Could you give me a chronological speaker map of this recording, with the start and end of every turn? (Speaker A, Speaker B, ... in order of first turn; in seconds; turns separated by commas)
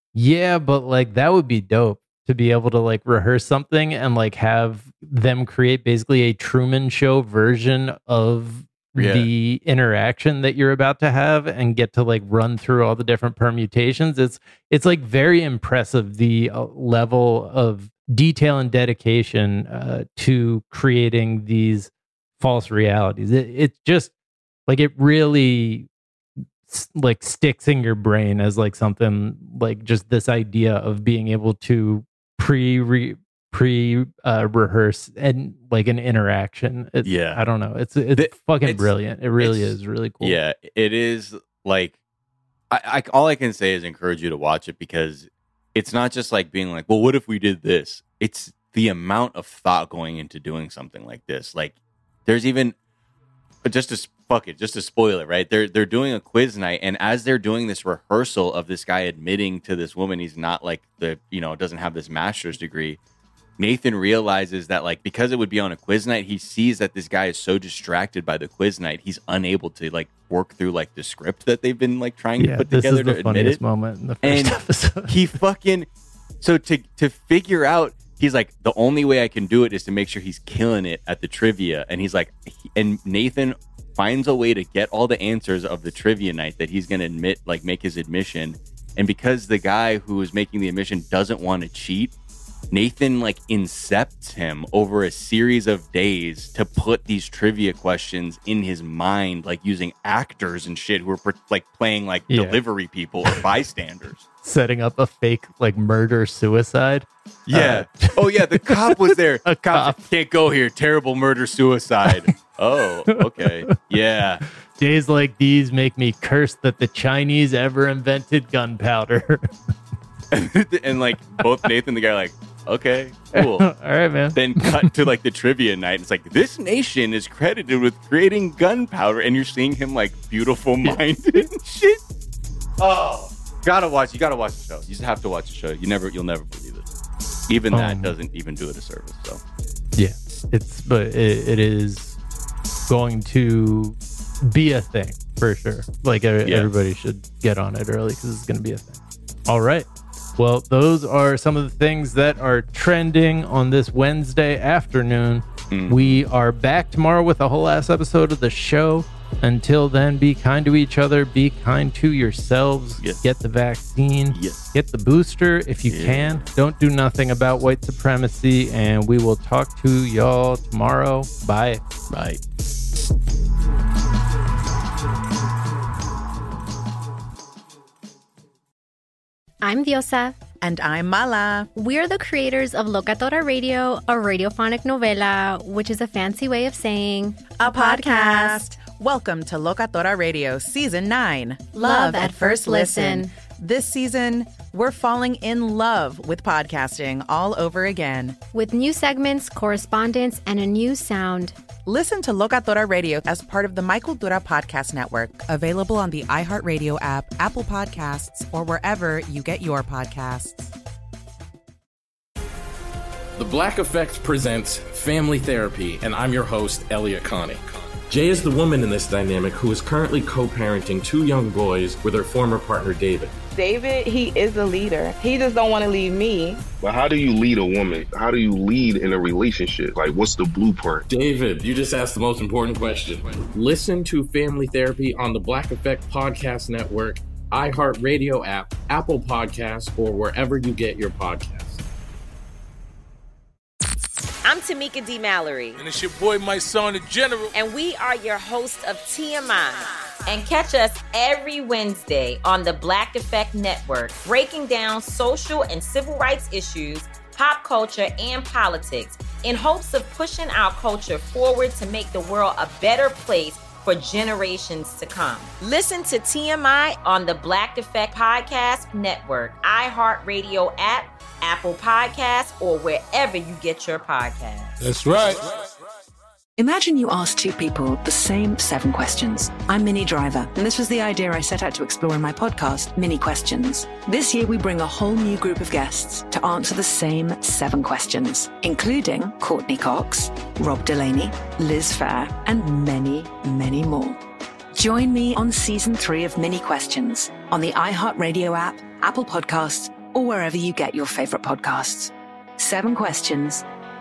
Speaker A: 0.1-24.1, Speaker B: 9.0-9.3, Speaker A: 24.7-25.9, Speaker A: 26.7-40.4, Speaker B: 37.0-37.4, Speaker B: 38.2-42.0, Speaker B: 42.7-52.8, Speaker B: 53.6-63.0, Speaker B: 63.6-73.6, Speaker A: 72.4-75.2, Speaker B: 74.2-75.9, Speaker B: 76.4-92.1, Speaker B: 92.7-104.2, Speaker A: 102.3-102.6, Speaker A: 104.4-110.0, Speaker B: 107.5-114.4, Speaker A: 113.4-113.8, Speaker A: 114.8-119.5, Speaker B: 120.3-123.7, Speaker A: 123.3-124.9, Speaker B: 124.3-132.0, Speaker B: 132.8-136.9, Speaker B: 137.5-139.4, Speaker A: 137.7-138.1, Speaker A: 140.0-142.2, Speaker A: 142.9-149.9, Speaker B: 146.4-146.7, Speaker A: 150.4-171.8, Speaker B: 155.7-156.2, Speaker B: 164.3-164.7, Speaker B: 165.9-166.4, Speaker B: 172.1-172.4, Speaker C: 179.6-180.4, Speaker D: 180.6-181.7, Speaker C: 181.8-188.6, Speaker D: 187.5-198.4, Speaker C: 191.7-193.3, Speaker C: 198.5-201.6, Speaker D: 201.9-210.7, Speaker E: 213.4-223.3, Speaker F: 223.6-226.6, Speaker G: 226.8-231.1, Speaker E: 231.1-241.8, Speaker H: 244.4-245.8, Speaker I: 245.8-247.5, Speaker H: 247.5-274.7, Speaker I: 274.8-275.7, Speaker J: 276.6-294.2, Speaker J: 294.7-303.6